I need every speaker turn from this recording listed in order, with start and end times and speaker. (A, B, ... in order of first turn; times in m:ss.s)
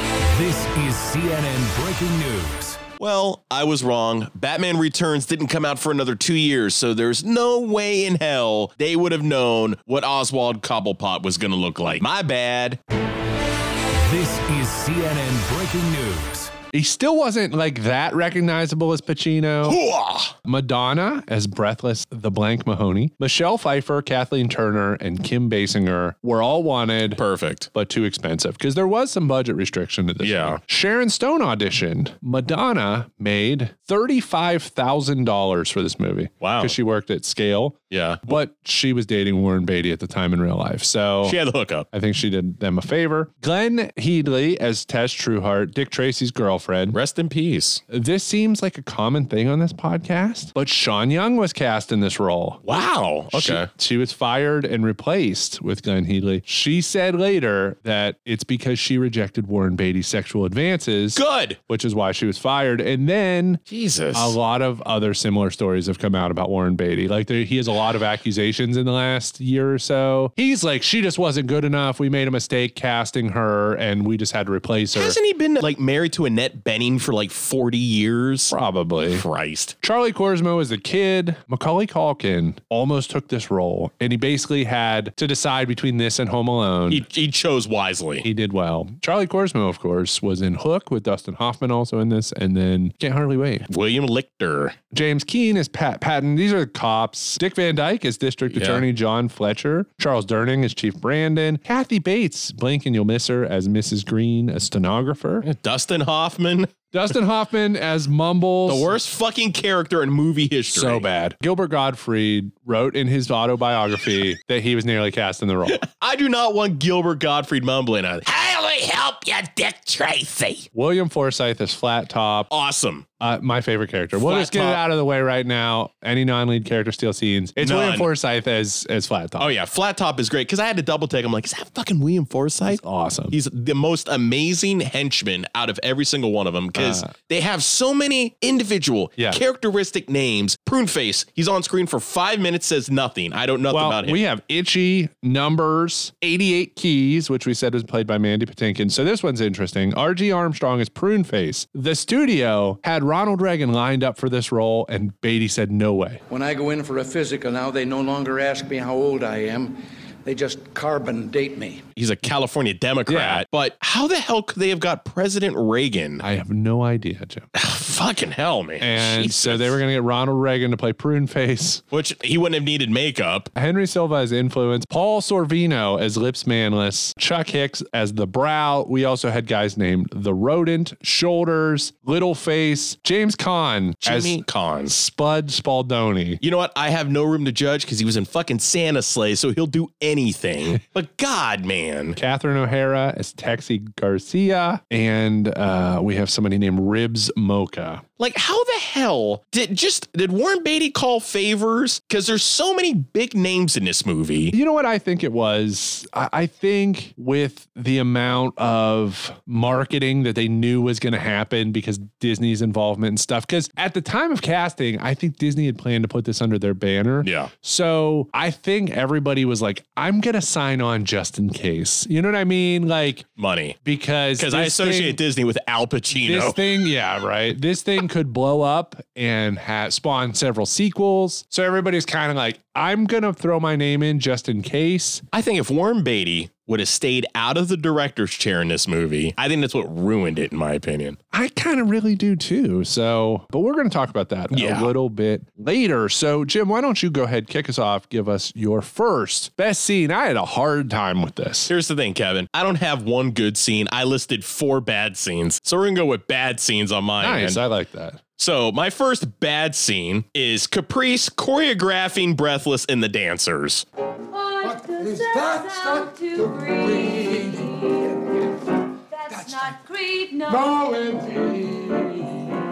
0:00.3-0:02.8 A
0:03.0-0:12.8 B
0:14.0-0:16.5 A
0:16.7-0:19.8 C
0:19.6-0:20.4 B
0:20.4-0:27.2 C
0:27.2-0:27.7 B
0:27.7-0:41.4 C
0:30.2-0:30.6 B
0:36.4-0:36.8 B
0:37.9-0:38.4 B
0:41.2-0:41.9 B
0:41.9-0:47.0 C
0:46.9-0:47.8 B
0:47.9-0:52.6 C
0:52.6-0:53.7 B
0:53.3-1:03.6 C
1:01.1-1:01.6 B
1:03.7-1:04.4 B
1:04.1-1:15.2 C
1:15.0-1:18.5 B
1:18.5-1:19.2 C
1:19.1-1:19.8 B
1:19.8-1:27.0 C
1:26.9-1:28.3 B
1:28.2-1:33.7 C
1:33.7-1:34.8 B
1:34.9-1:45.5 C
1:38.5-1:38.9 B
1:45.4-1:46.7 B
1:46.9-1:48.9 C
1:48.7-1:51.1 B
1:50.7-1:55.8 C
1:55.7-2:00.7 B
2:00.7-2:02.5 C
2:02.5-2:03.1 B
2:03.2-2:09.5 C
2:04.2-2:04.8 B
2:07.6-2:08.1 B
2:09.4-2:24.2 B
2:12.6-2:13.4 C
2:16.8-2:17.1 C
2:23.7-2:36.2 C
2:36.3-2:41.8 D
2:42.0-2:46.2 B
2:43.1-2:43.4 C
2:46.2-2:47.5 C
2:47.6-2:49.8 B
2:48.8-2:51.8 C
2:51.9-2:53.5 B
2:53.5-3:06.4 C
3:04.0-3:05.0 B
3:06.4-3:12.2 B
3:12.2-3:18.0 C
3:18.2-3:24.5 B
3:24.5-3:43.3 C
3:37.2-3:37.5 B
3:43.4-3:43.8 B
3:43.8-3:45.2 C
3:44.4-3:46.6 B
3:46.2-3:55.2 C
3:55.3-4:01.2 B
4:01.3-4:11.7 C
4:04.5-4:04.9 B
4:11.7-4:17.6 B
4:17.2-4:18.2 C
4:18.4-4:23.8 B
4:24.3-4:28.2 E
4:29.1-4:32.1 E